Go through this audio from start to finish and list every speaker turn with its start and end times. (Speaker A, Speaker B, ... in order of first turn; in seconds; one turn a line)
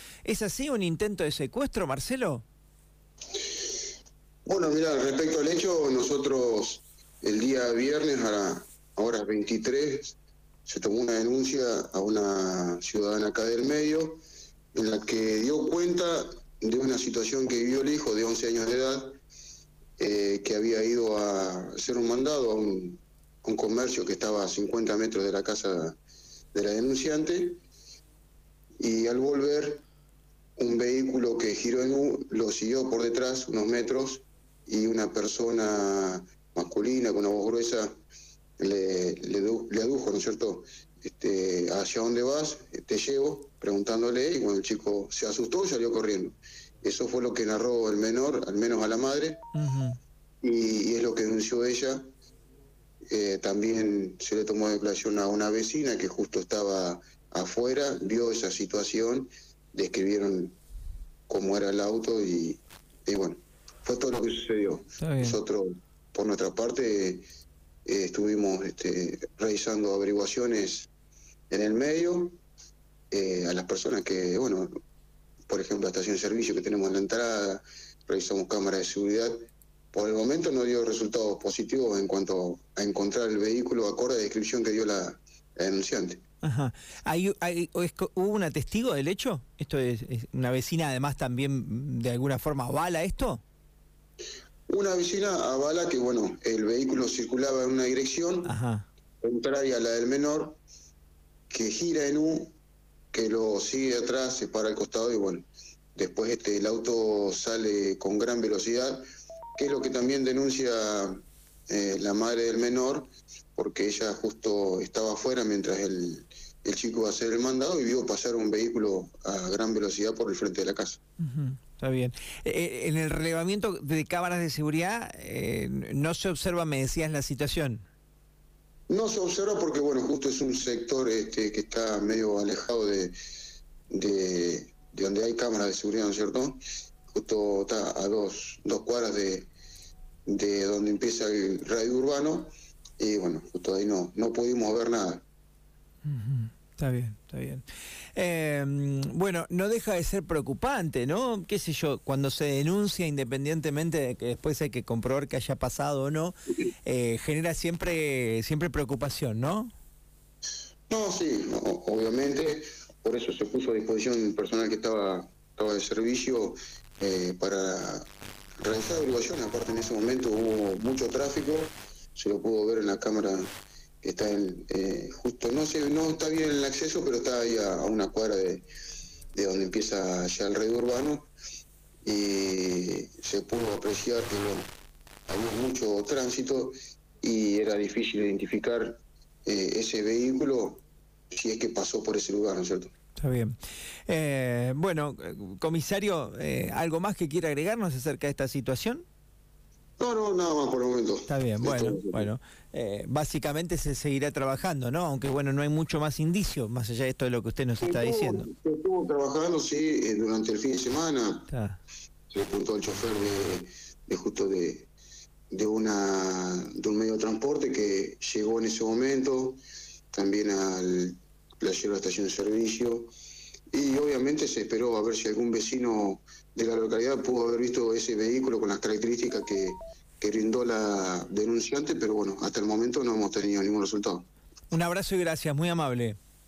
Speaker A: 0.2-2.4
Speaker B: 3.3-3.6
Speaker B: 4.5-14.2
Speaker B: 14.7-19.1
Speaker B: 20.0-26.0
Speaker B: 26.5-27.6
Speaker B: 28.8-29.8
Speaker B: 30.6-37.9
Speaker B: 38.6-49.5
Speaker A: 49.5-50.0
Speaker B: 50.4-52.0
Speaker B: 53.1-60.6
Speaker B: 61.3-67.2
Speaker A: 65.0-65.4
Speaker B: 67.9-70.9
Speaker B: 71.5-72.4
Speaker B: 73.1-74.7
Speaker B: 75.5-79.4
Speaker B: 79.9-86.2
Speaker A: 86.4-93.4
Speaker B: 94.7-98.5
Speaker A: 98.5-98.9
Speaker B: 99.2-100.6
Speaker B: 101.5-102.5
Speaker B: 103.1-109.0
Speaker B: 109.6-121.0
Speaker A: 121.2-127.8
Speaker B: 128.9-133.2
Speaker B: 133.9-136.6
Speaker B: 137.1-139.5
Speaker B: 140.3-145.2
Speaker A: 146.1-159.7
Speaker B: 160.9-168.1
Speaker B: 168.6-173.5
Speaker B: 174.0-178.7
Speaker B: 179.3-181.3
Speaker B: 182.0-184.7
Speaker B: 185.3-192.9
Speaker A: 193.2-193.6
Speaker A: 194.1-199.1
Speaker B: 200.0-202.3
Speaker A: 201.3-208.5
Speaker B: 207.8-211.5
Speaker A: 211.5-211.8
Speaker B: 212.3-214.9
Speaker B: 215.5-219.6
Speaker B: 220.1-223.1
Speaker B: 223.7-234.3
Speaker A: 234.7-236.2